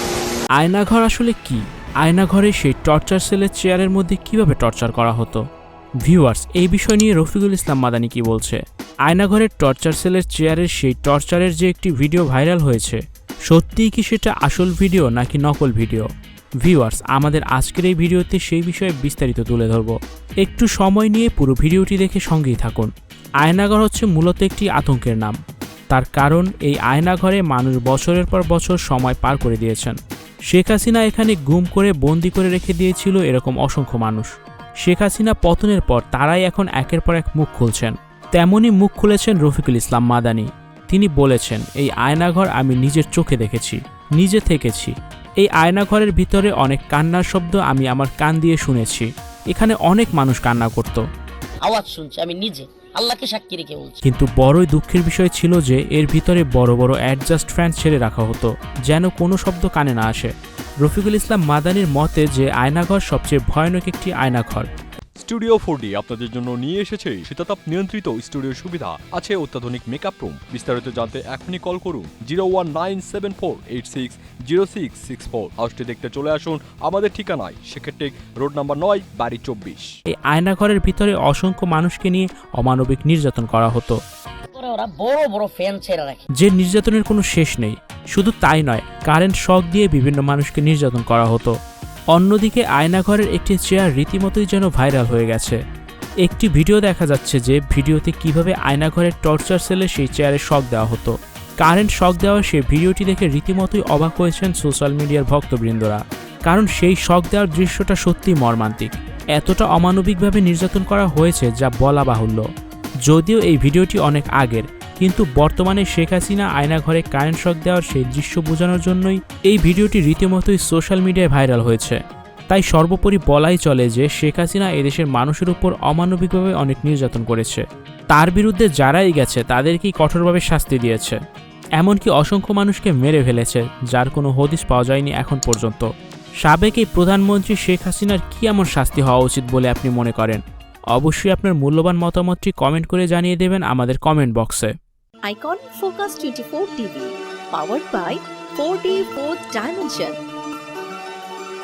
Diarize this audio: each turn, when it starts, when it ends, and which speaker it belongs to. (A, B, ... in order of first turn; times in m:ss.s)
0:00.6-0:05.4 A
0:06.0-0:16.1 A
0:16.6-0:22.9 A
0:23.4-0:25.4 A
0:25.9-0:30.0 A
0:30.5-0:34.3 A
0:34.8-0:51.0 A
0:51.6-0:54.0 B
0:54.0-1:00.3 A
1:00.8-1:04.7 A
1:05.2-1:19.9 C
1:20.1-1:24.0 A
1:24.5-1:26.3 B
1:26.4-1:31.5 A
1:32.1-1:35.6 A
1:36.2-1:52.4 A
1:53.1-2:11.2 A
2:11.8-2:15.8 A
2:16.4-2:20.4 A
2:20.9-2:24.7 A
2:25.3-2:30.2 D